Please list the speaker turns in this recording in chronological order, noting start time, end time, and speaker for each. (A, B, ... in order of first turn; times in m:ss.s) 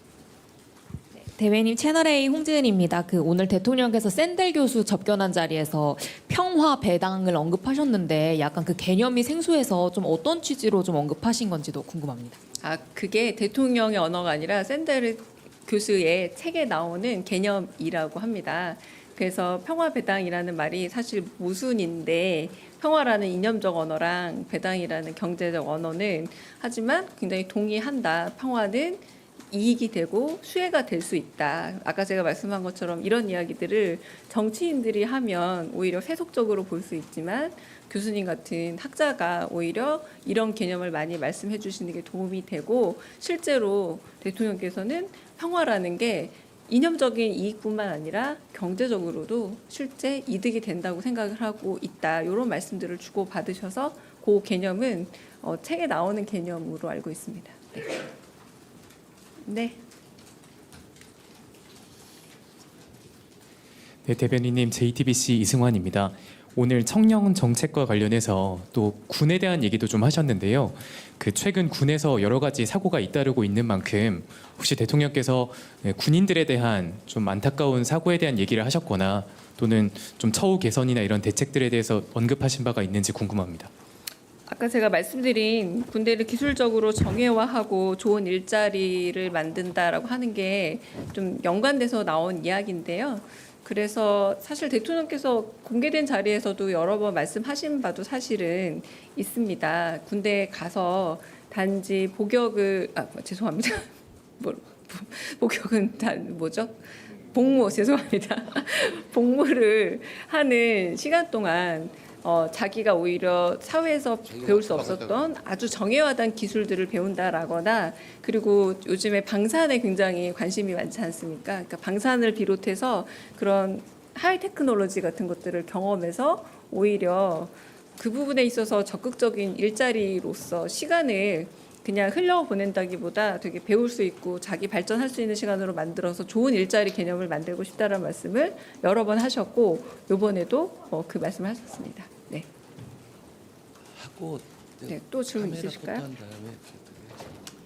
0:01.3-0:12.4 A
0:12.6-0:58.0 B
0:59.5-0:59.8 B
1:04.0-1:23.7 C
1:24.5-1:46.8 B
1:47.3-2:22.5 B
1:54.3-1:55.0 D
2:24.0-2:27.2 D
2:24.9-2:26.1 B